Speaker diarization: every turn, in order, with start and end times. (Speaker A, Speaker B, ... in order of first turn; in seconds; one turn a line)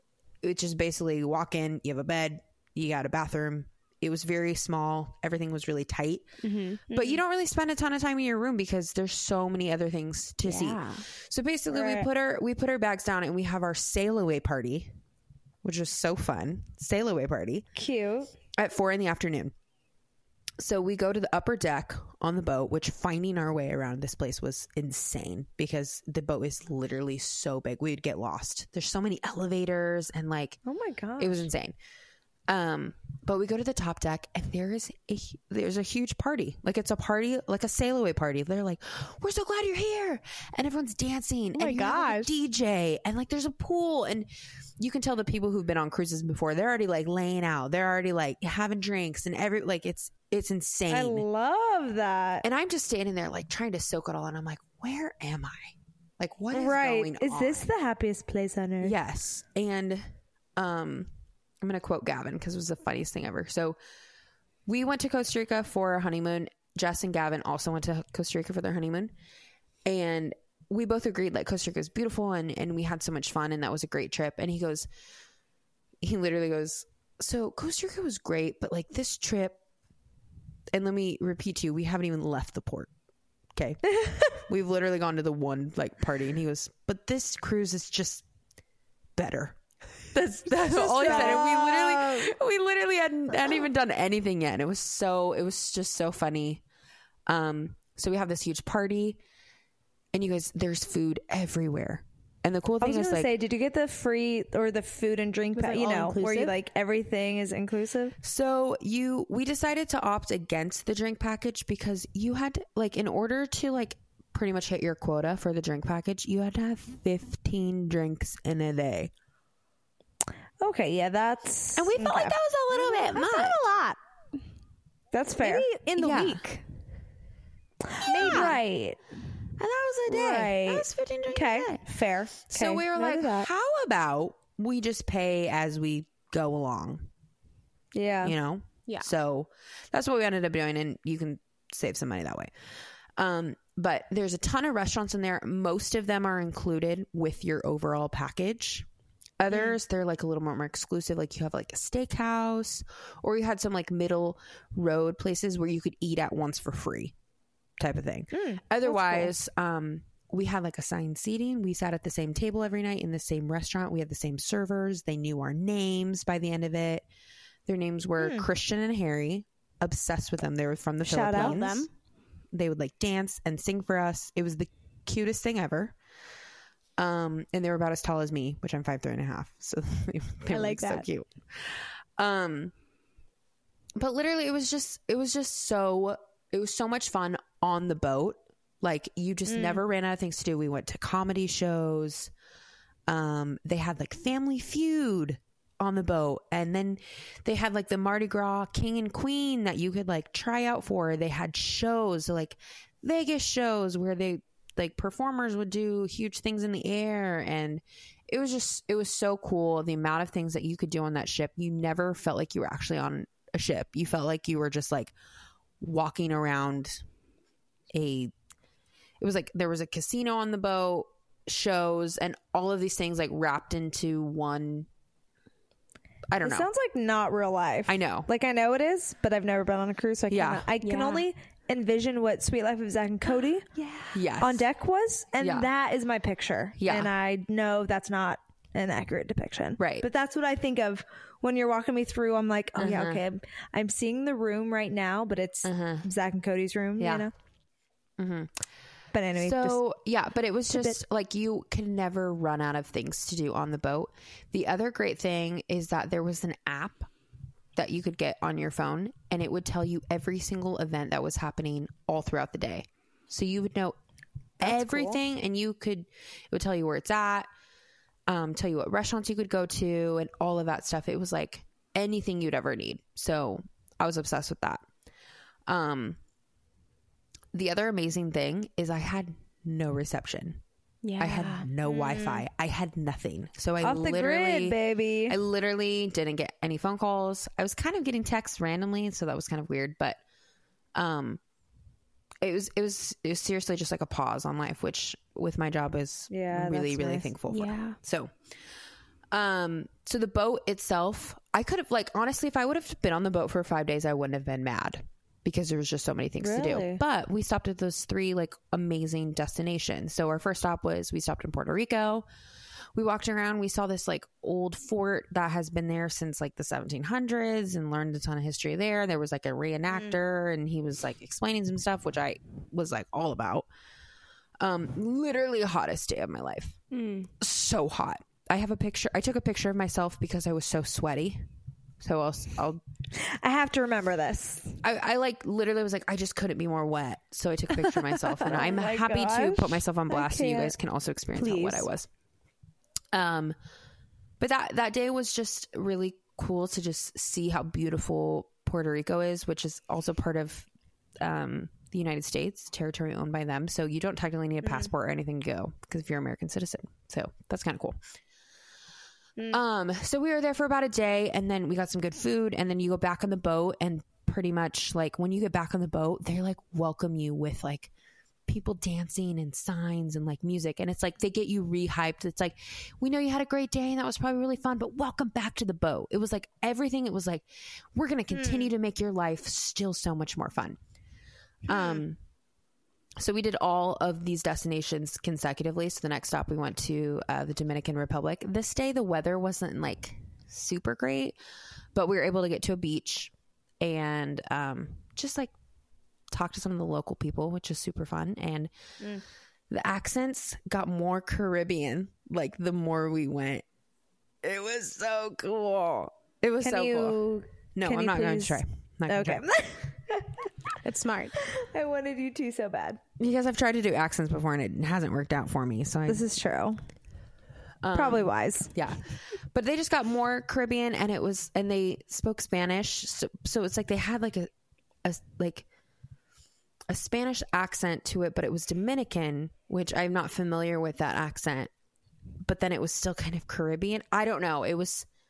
Speaker A: 0.4-15.0
Speaker B: 6.4-6.8
Speaker C: 6.9-7.2
Speaker B: 10.4-11.0
Speaker C: 11.7-12.1
Speaker A: 15.6-17.6
Speaker C: 17.7-18.3
Speaker A: 18.5-19.5
Speaker A: 20.6-30.6
Speaker C: 30.6-31.5
Speaker A: 31.2-31.8
Speaker A: 32.5-51.2
Speaker B: 41.5-42.3
Speaker C: 50.9-52.5
Speaker A: 52.4-57.7
Speaker C: 56.5-58.9
Speaker A: 58.8-63.8
Speaker A: 64.7-69.1
Speaker A: 69.8-74.9
Speaker A: 76.0-79.6
Speaker A: 80.7-82.9
Speaker A: 83.5-88.2
Speaker A: 89.2-89.6
Speaker A: 90.1-96.6
Speaker B: 90.6-92.2
Speaker C: 90.7-91.7
Speaker A: 97.3-99.2
Speaker A: 100.1-103.3
Speaker C: 102.8-108.2
Speaker B: 105.5-106.5
Speaker A: 108.2-119.1
Speaker C: 120.6-122.3
Speaker A: 121.7-123.6
Speaker B: 122.0-124.0
Speaker C: 125.1-125.7
Speaker B: 125.4-126.6
Speaker A: 126.0-126.4
Speaker C: 127.9-129.0
Speaker A: 128.0-128.6
Speaker B: 128.2-128.5
Speaker A: 129.6-131.8
Speaker C: 130.1-133.5
Speaker A: 132.5-137.1
Speaker C: 137.9-138.3
Speaker A: 138.2-142.5
Speaker A: 143.2-148.9
Speaker A: 149.4-157.1
Speaker A: 157.8-167.0
Speaker C: 158.3-159.3
Speaker A: 167.7-171.9
Speaker C: 168.2-168.5
Speaker C: 171.1-171.6
Speaker B: 171.2-171.9
Speaker A: 172.5-175.9
Speaker A: 177.0-182.7
Speaker B: 180.5-181.0
Speaker A: 183.9-192.3
Speaker C: 189.5-189.8
Speaker A: 193.1-215.1
Speaker A: 215.8-217.0
Speaker A: 217.9-218.3
Speaker A: 219.2-224.9
Speaker A: 226.3-226.7
Speaker C: 226.4-233.7
Speaker A: 227.9-228.3
Speaker A: 230.3-230.7
Speaker B: 230.8-231.2
Speaker B: 233.8-234.2
Speaker A: 234.1-234.7
Speaker C: 234.4-247.3
Speaker A: 235.4-235.7
Speaker A: 236.8-237.1
Speaker A: 239.8-240.1
Speaker A: 242.8-243.2
Speaker A: 245.6-246.1
Speaker A: 247.0-247.3
Speaker A: 248.2-248.6
Speaker C: 249.1-249.8
Speaker A: 249.3-257.1
Speaker C: 250.7-251.0
Speaker A: 257.7-263.9
Speaker A: 264.6-267.5
Speaker C: 264.6-265.2
Speaker A: 268.3-274.8
Speaker A: 275.7-276.2
Speaker A: 277.5-280.6
Speaker B: 281.0-281.7
Speaker A: 281.2-290.2
Speaker C: 281.8-282.4
Speaker C: 283.8-285.4
Speaker A: 290.9-291.4
Speaker A: 292.4-298.3
Speaker C: 296.3-297.3
Speaker B: 297.5-298.0
Speaker A: 299.3-312.2
Speaker C: 306.4-307.0
Speaker A: 312.9-323.7
Speaker A: 324.6-326.8
Speaker B: 326.9-327.3
Speaker A: 327.4-332.8
Speaker C: 333.2-334.8
Speaker A: 334.8-342.1
Speaker C: 338.4-340.7
Speaker B: 341.3-341.9
Speaker A: 343.1-343.5
Speaker A: 344.4-350.7
Speaker A: 351.2-358.0
Speaker C: 354.6-354.9
Speaker A: 359.5-367.9
Speaker A: 368.5-380.8
Speaker C: 378.3-378.7
Speaker A: 381.7-382.2
Speaker C: 381.7-382.0
Speaker A: 383.2-391.4
Speaker A: 391.9-395.5
Speaker A: 396.3-398.7
Speaker A: 399.7-403.6
Speaker A: 404.4-407.2
Speaker C: 406.6-410.5
Speaker A: 407.7-409.4
Speaker B: 410.8-411.4
Speaker C: 411.5-413.0
Speaker A: 413.2-416.2
Speaker C: 416.1-416.8
Speaker A: 417.8-424.5
Speaker C: 417.9-418.7
Speaker A: 425.0-425.6
Speaker A: 426.9-431.7
Speaker A: 432.4-435.1